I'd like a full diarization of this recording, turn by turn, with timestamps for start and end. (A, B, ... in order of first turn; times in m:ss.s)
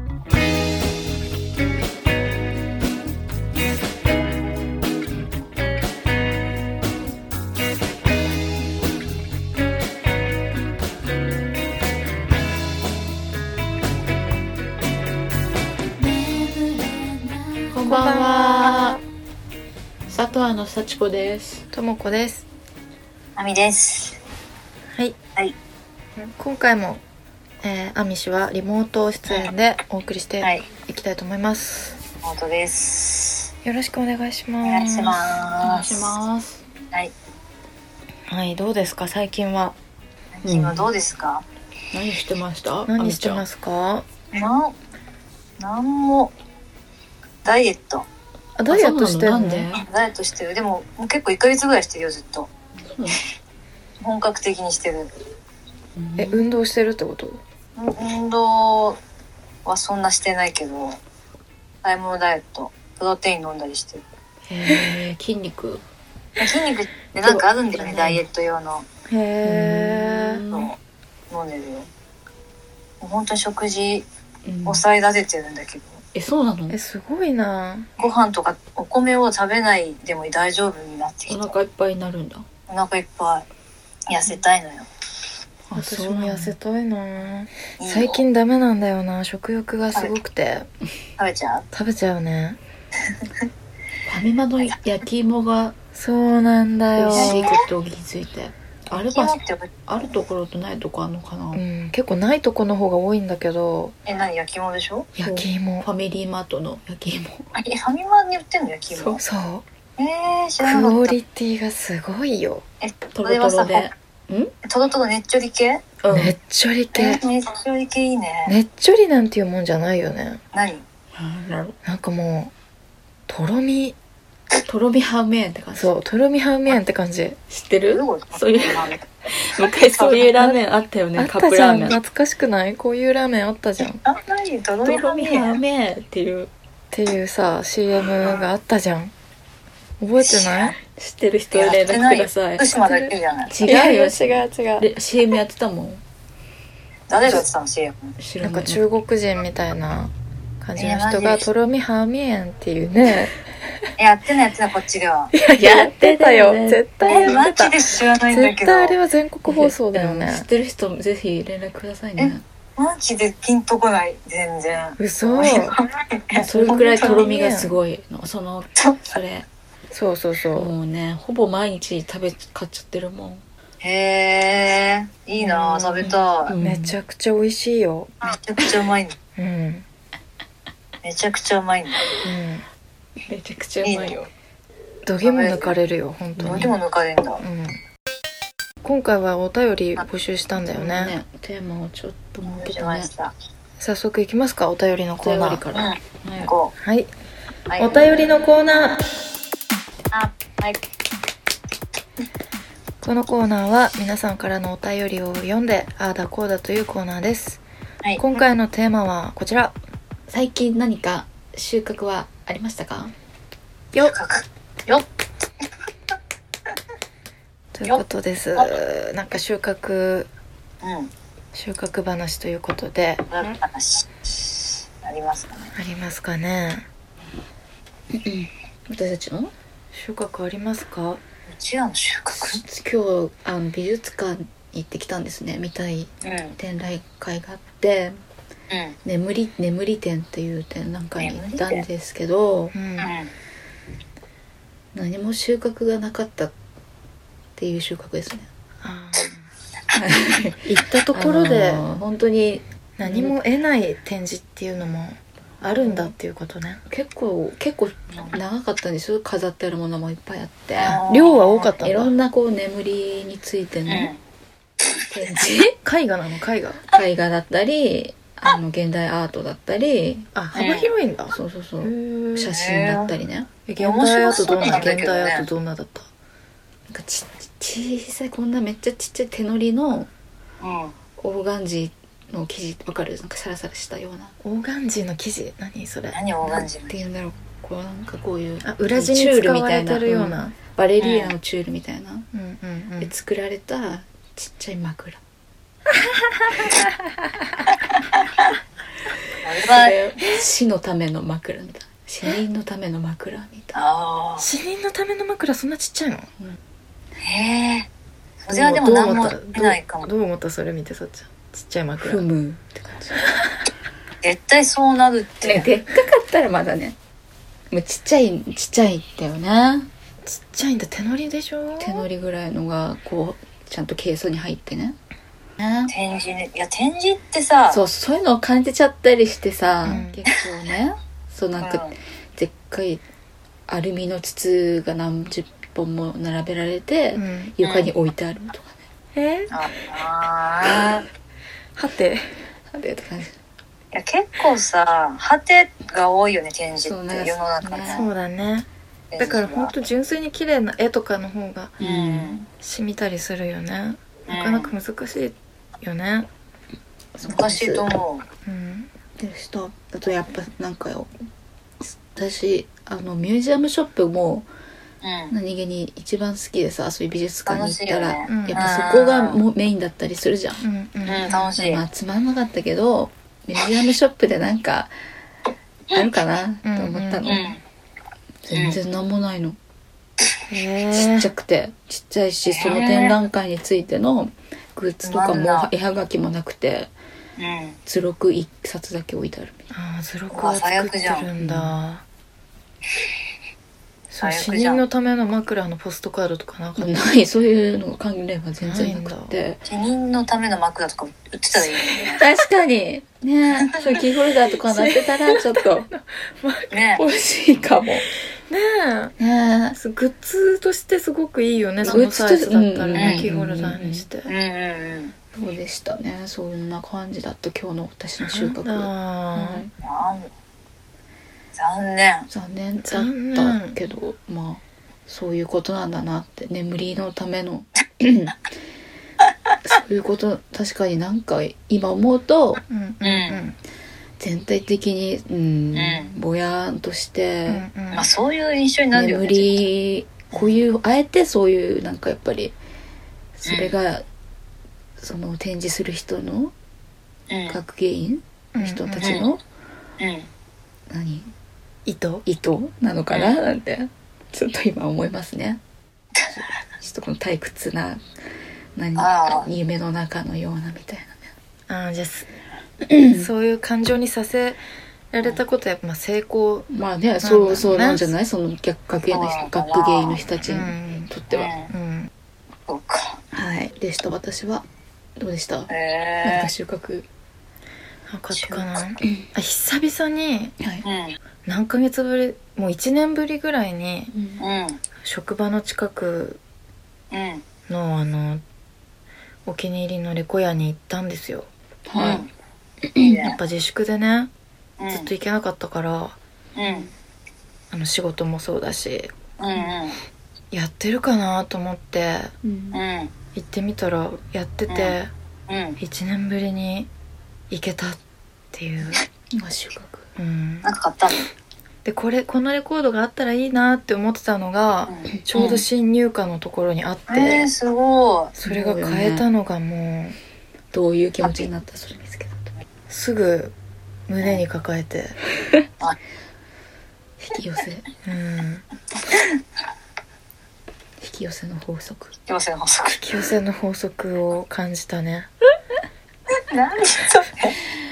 0:16.1-0:19.0 A
0:17.8-0:19.0 B
0:20.1-0:21.6 A
0:21.7-0:22.4 B
0:23.4-0:24.2 C
0:26.2-0:27.0 B
0:27.6-0:32.0 B
0:29.3-0:29.5 C
0:32.2-0:33.5 C
0:33.6-0:35.4 B
0:34.6-0:36.1 C
0:35.6-0:36.6 A
0:38.3-0:39.8 B
0:40.3-0:41.4 C
0:40.4-0:40.9 A
0:41.9-0:43.4 A
0:42.9-0:44.1 B
0:44.3-0:44.7 C
0:45.6-0:46.3 C
0:47.4-0:48.1 C
0:48.6-0:49.7 B
0:48.7-0:49.8 A
0:49.8-0:52.5 C
0:52.9-0:53.2 A
0:54.0-0:55.1 C
0:56.0-0:56.4 A
0:56.2-0:57.4 B
0:57.8-0:59.0 C
0:59.6-1:01.0 C
1:01.8-1:04.0 C
1:04.5-1:05.8 A
1:06.4-1:08.8 C
1:07.8-1:08.2 A
1:09.1-1:10.4 B
1:09.4-1:10.7 A
1:11.3-1:11.9 C
1:13.0-1:14.0 C
1:14.4-1:14.8 A
1:14.6-1:16.0 C
1:16.1-1:16.8 A
1:16.7-1:17.9 B
1:18.0-1:21.5 C
1:21.3-1:22.4 A
1:22.7-1:23.4 C
1:24.1-1:24.9 C
1:25.7-1:26.5 A
1:25.7-1:30.7 B
1:27.8-1:28.2 C
1:31.2-1:31.6 C
1:31.7-1:32.6 B
1:34.1-1:35.8 A
1:35.9-1:37.5 B
1:37.0-1:41.6 A
1:37.1-1:37.6 C
1:38.9-1:39.8 C
1:41.5-1:43.9 B
1:44.0-1:45.1 C
1:45.2-1:47.5 A
1:45.2-1:45.9 B
1:47.5-1:49.2 C
1:48.9-1:49.2 A
1:49.2-1:49.6 B
1:50.0-1:51.1 C
1:50.6-1:52.6 B
1:52.8-1:53.9 C
1:53.1-1:54.5 A
1:54.6-1:55.8 C
1:56.0-1:56.4 A
1:56.1-1:57.2 B
1:56.9-1:58.5 C
1:58.4-2:00.4 B
2:00.5-2:00.8 C
2:01.1-2:01.8 A
2:01.8-2:02.5 B
2:03.3-2:04.0 B
2:04.6-2:05.9 A
2:05.8-2:07.4 B
2:07.5-2:12.0 A
2:07.9-2:09.0 C
2:09.9-2:10.3 C
2:10.3-2:10.6 B
2:11.2-2:14.0 B
2:14.0-2:15.6 C
2:14.8-2:16.5 A
2:16.9-2:19.1 B
2:18.2-2:18.5 C
2:20.0-2:20.8 B
2:20.2-2:20.7 C
2:20.8-2:22.7 A
2:21.5-2:23.6 C
2:22.8-2:24.9 B
2:23.5-2:26.0 A
2:27.1-2:28.1 C
2:28.2-2:28.8 A
2:28.4-2:33.4 B
2:30.8-2:31.5 C
2:34.0-2:35.3 C
2:35.3-2:40.5 B
2:35.5-2:37.4 A
2:37.0-2:39.0 C
2:39.4-2:42.4 A
2:42.2-2:47.2 C
2:45.0-2:45.8 B
2:46.4-2:49.5 A
2:46.4-2:47.8 B
2:48.8-2:49.2 C
2:49.9-2:50.7 B
2:50.5-2:53.4 A
2:53.8-2:56.6 C
2:55.4-2:58.1 B
2:56.5-2:57.0 A
2:58.2-2:59.1 C
2:59.4-2:59.8 B
3:01.0-3:02.0 C
3:02.2-3:02.6 B
3:03.2-3:04.3 A
3:03.8-3:04.1 C
3:05.0-3:06.7 B
3:05.2-3:05.7 C
3:06.4-3:06.7 A
3:06.4-3:07.4 C
3:07.4-3:07.8 B
3:08.8-3:11.1 B
3:10.6-3:13.1 A
3:12.4-3:13.3 C
3:13.8-3:15.6 B
3:15.2-3:16.5 A
3:15.7-3:16.7 C
3:16.8-3:17.1 B
3:17.7-3:18.2 C
3:17.8-3:19.0 B
3:20.1-3:20.8 C
3:23.0-3:27.6 B
3:28.2-3:29.7 B
3:30.3-3:33.1 A
3:34.0-3:35.0 C
3:37.7-3:40.3 B
3:40.8-3:41.1 C
3:41.5-3:43.3 B
3:43.3-3:45.7 C
3:45.8-3:46.8 B
3:48.1-3:49.5 A
3:49.9-3:51.2 B
3:51.5-3:52.6 C
3:52.3-3:58.2 A
3:56.2-3:56.6 C
3:58.7-3:59.0 C
3:59.0-4:02.7 A
4:01.2-4:01.9 C
4:02.7-4:03.1 B
4:03.0-4:03.3 C
4:04.9-4:06.5 A
4:07.6-4:08.5 A
4:08.8-4:09.4 B
4:09.9-4:13.4 A
4:10.6-4:11.8 B
4:13.0-4:16.8 B
4:15.8-4:16.1 A
4:16.9-4:21.1 A
4:18.1-4:18.4 C
4:20.7-4:21.7 C
4:20.9-4:22.1 B
4:21.8-4:24.1 A
4:23.9-4:24.2 C
4:25.1-4:25.8 A
4:25.8-4:26.8 B
4:26.9-4:30.3 A
4:30.3-4:32.6 B
4:30.6-4:30.9 C
4:31.3-4:33.5 A
4:32.5-4:33.1 C
4:33.6-4:36.1 B
4:33.8-4:35.5 C
4:34.3-4:35.0 A
4:36.9-4:40.1 A
4:40.6-4:40.9 C
4:41.2-4:44.3 A
4:44.4-4:46.2 B
4:46.1-4:47.0 C
4:46.8-4:52.3 A
4:48.6-4:50.6 B
4:51.0-4:51.3 C
4:52.3-4:53.1 B
4:53.0-4:55.2 A
4:57.9-4:58.5 C
4:59.4-4:59.9 C
4:59.6-5:03.7 A
5:03.7-5:04.5 C
5:04.4-5:06.3 B
5:07.2-5:07.9 C
5:08.4-5:10.1 C
5:08.5-5:12.2 B
5:12.0-5:13.2 A
5:14.2-5:15.7 C
5:15.4-5:17.0 A
5:17.7-5:19.9 A
5:20.2-5:22.0 B
5:21.8-5:25.0 A
5:25.6-5:25.9 A
5:25.9-5:27.8 C
5:27.7-5:33.0 A
5:29.8-5:30.4 B
5:31.6-5:31.9 C
5:33.7-5:38.8 A
5:37.1-5:37.5 B
5:37.6-5:37.9 C
5:39.1-5:39.5 B
5:39.5-5:41.0 C
5:41.8-5:42.3 B
5:42.7-5:43.4 A
5:43.9-5:48.1 C
5:46.8-5:48.0 A
5:47.9-5:48.7 B
5:49.1-5:49.7 C
5:49.2-5:51.9 B
5:51.8-5:52.4 A
5:51.8-5:52.4 C
5:52.5-5:56.3 B
5:54.3-5:54.7 C
5:57.2-5:57.9 A
5:57.2-5:58.2 C
5:58.4-5:58.9 B
5:59.2-6:01.1 A
6:01.8-6:04.5 A
6:05.0-6:05.3 C
6:05.3-6:10.6 A
6:07.5-6:09.4 C
6:08.3-6:08.7 B
6:10.6-6:11.5 B
6:11.0-6:11.8 C
6:11.6-6:14.9 A
6:15.9-6:17.5 A
6:16.6-6:17.3 B
6:17.2-6:17.6 C
6:18.4-6:19.6 A
6:18.5-6:18.8 C
6:20.5-6:21.3 B
6:20.9-6:26.9 A
6:22.4-6:23.2 C
6:25.0-6:25.7 C
6:27.4-6:27.8 C
6:27.8-6:29.6 A
6:29.7-6:32.0 B
6:30.3-6:31.3 C
6:31.4-6:31.7 A
6:34.1-6:37.0 B
6:34.2-6:34.8 C
6:36.8-6:39.6 A
6:38.6-6:39.3 B
6:39.6-6:42.2 C
6:42.1-6:45.9 A
6:43.8-6:47.0 B
6:46.7-6:47.0 C
6:47.0-6:48.1 A
6:48.5-6:49.2 B
6:49.2-6:49.8 A
6:49.7-6:54.3 B
6:51.8-6:54.1 A
6:53.0-6:53.3 C
6:54.2-6:55.1 C
6:55.3-6:59.7 A
6:58.2-6:59.7 B
6:59.8-7:00.3 C
7:01.5-7:02.3 C
7:02.3-7:08.3 A
7:02.8-7:03.8 B
7:09.6-7:12.6 A
7:12.7-7:13.6 B
7:13.0-7:13.4 C
7:14.2-7:17.6 A
7:15.7-7:16.1 C
7:17.5-7:18.1 B
7:17.9-7:19.6 C
7:18.9-7:22.6 A
7:23.4-7:24.0 A
7:23.4-7:23.7 C
7:25.0-7:26.5 A
7:27.3-7:27.6 C
7:27.5-7:29.4 A
7:28.5-7:29.2 B
7:29.0-7:29.3 C
7:30.0-7:30.3 C
7:30.9-7:31.3 A
7:31.8-7:32.2 B
7:32.2-7:35.6 A
7:33.1-7:33.4 C
7:36.4-7:38.0 A
7:38.7-7:41.3 A
7:39.0-7:39.5 C
7:41.7-7:42.3 B
7:42.8-7:43.3 A
7:43.1-7:48.1 B
7:46.7-7:51.5 A
7:49.1-7:50.2 C
7:50.4-7:51.1 B
7:51.3-7:51.7 C
7:51.7-7:52.1 B
7:52.7-7:53.2 C
7:53.3-7:54.6 A
7:55.2-7:55.7 A
7:55.7-7:56.5 C
7:56.2-7:57.1 A
7:58.1-8:00.5 B
7:58.3-7:58.8 C
8:00.6-8:00.8 A
8:00.8-8:01.2 C
8:01.4-8:04.1 B
8:04.1-8:04.4 A
8:04.4-8:04.8 C
8:05.0-8:06.4 B
8:07.1-8:07.4 C
8:07.7-8:08.4 B
8:09.4-8:11.5 B
8:11.8-8:12.2 A
8:12.0-8:12.3 C
8:12.8-8:13.2 A
8:13.0-8:13.4 C
8:13.2-8:14.3 B
8:14.8-8:15.1 C
8:14.9-8:16.2 B
8:16.6-8:16.9 C
8:17.7-8:19.2 B
8:19.4-8:20.0 C
8:20.5-8:22.3 B
8:22.4-8:22.8 A
8:22.7-8:23.1 C
8:23.3-8:25.1 B
8:24.7-8:25.0 C
8:25.5-8:25.8 C
8:25.8-8:26.9 B
8:27.5-8:28.0 B
8:28.5-8:29.0 B
8:29.3-8:30.0 A
8:30.2-8:30.7 B
8:30.6-8:31.3 C
8:31.8-8:37.5 B
8:34.9-8:35.6 C
8:37.1-8:38.3 C
8:38.4-8:40.2 B
8:38.4-8:39.2 A
8:40.7-8:42.5 A
8:42.9-8:43.5 B
8:44.1-8:45.2 B
8:47.2-8:47.9 A
8:48.0-8:48.6 B
8:51.0-8:52.1 A
8:52.3-8:53.0 C
8:53.0-8:55.3 B
8:56.4-8:57.6 C